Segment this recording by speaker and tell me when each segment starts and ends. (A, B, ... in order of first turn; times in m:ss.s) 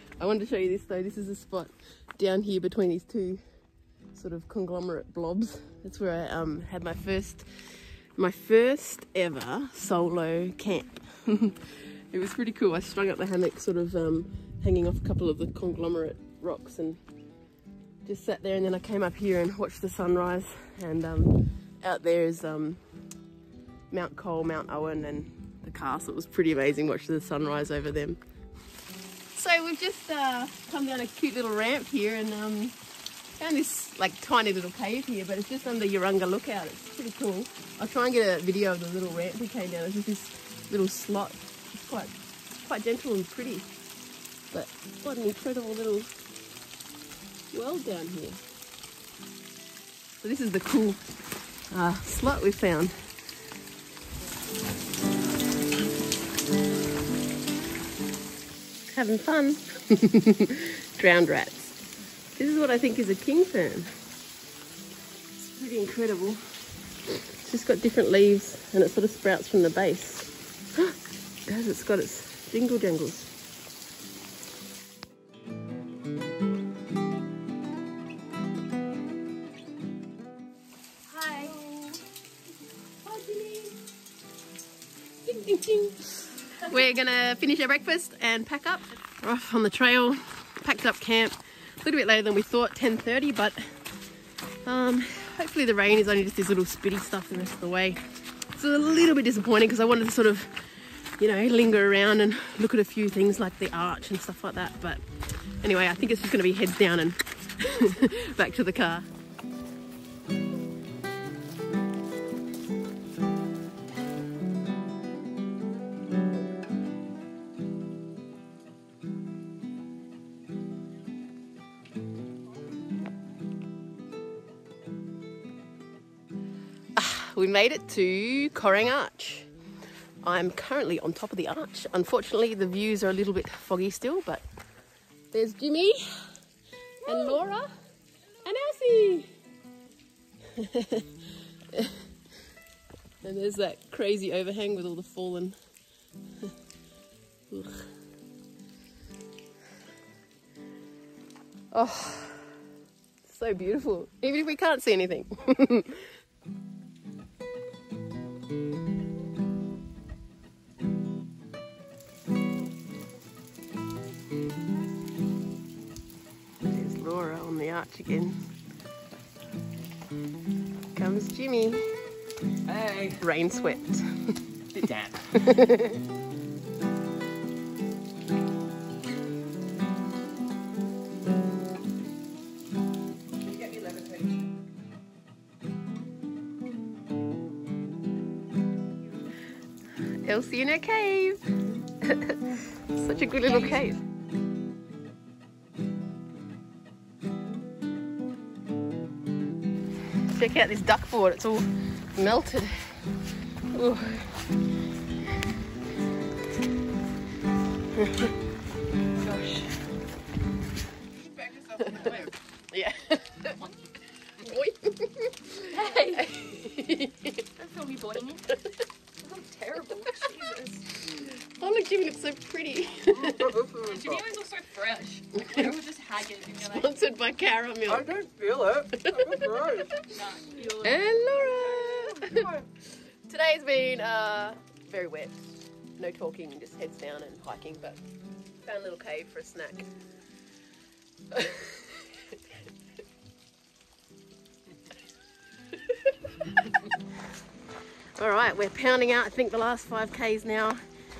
0:00.2-0:03.4 A
0:04.1-0:07.5 A
0:08.2-0:17.0 A
0:18.0-0:22.8 A
0:23.9-0:28.2 A
0:29.3-0:32.8 A
0:33.4-0:43.7 A
0:44.5-0:46.1 A
0:47.5-0:48.4 A
0:50.2-0:51.0 A
0:51.7-0:53.0 A
0:58.9-1:01.8 A
1:02.4-1:03.9 A
1:05.4-1:06.4 A
1:07.1-1:13.3 A
1:21.1-1:21.6 B
1:21.4-1:22.0 A
1:23.0-1:23.8 A
1:25.2-1:33.6 A
1:34.6-1:38.0 A
1:38.5-1:40.6 A
1:41.2-1:49.1 A
2:07.0-2:09.5 A
2:10.2-2:14.4 A
2:15.3-2:16.3 A
2:17.0-2:17.7 A
2:18.4-2:19.3 A
2:20.5-2:22.1 A
2:23.2-2:25.6 A
2:27.5-2:27.9 A
2:31.7-2:32.6 A
2:33.2-2:36.1 A
2:46.6-2:48.4 A
2:50.9-2:51.9 A
2:52.7-2:53.2 C
2:53.1-2:54.4 A
2:54.8-2:55.3 C
2:55.3-2:56.0 A
3:03.8-3:04.2 B
3:10.2-3:14.0 A
3:13.5-3:13.8 B
3:20.2-3:23.1 A
3:23.6-3:24.4 A
3:27.9-3:28.3 A
3:29.2-3:29.8 B
3:31.4-3:32.2 B
3:31.7-3:33.6 A
3:34.3-3:37.5 A
3:35.7-3:36.8 B
3:37.5-3:38.6 B
3:38.5-3:38.8 A
3:39.2-3:41.0 B
3:40.0-3:40.4 A
3:41.0-3:43.8 A
3:43.1-3:46.9 B
3:43.4-3:44.2 C
3:45.4-3:45.8 A
3:46.5-3:52.7 A
3:48.0-3:49.9 C
3:50.0-3:52.6 B
3:53.2-3:55.5 A
3:56.0-3:58.0 A
3:58.6-3:59.9 A
4:01.3-4:02.4 A
4:05.7-4:07.0 A
4:08.2-4:10.8 A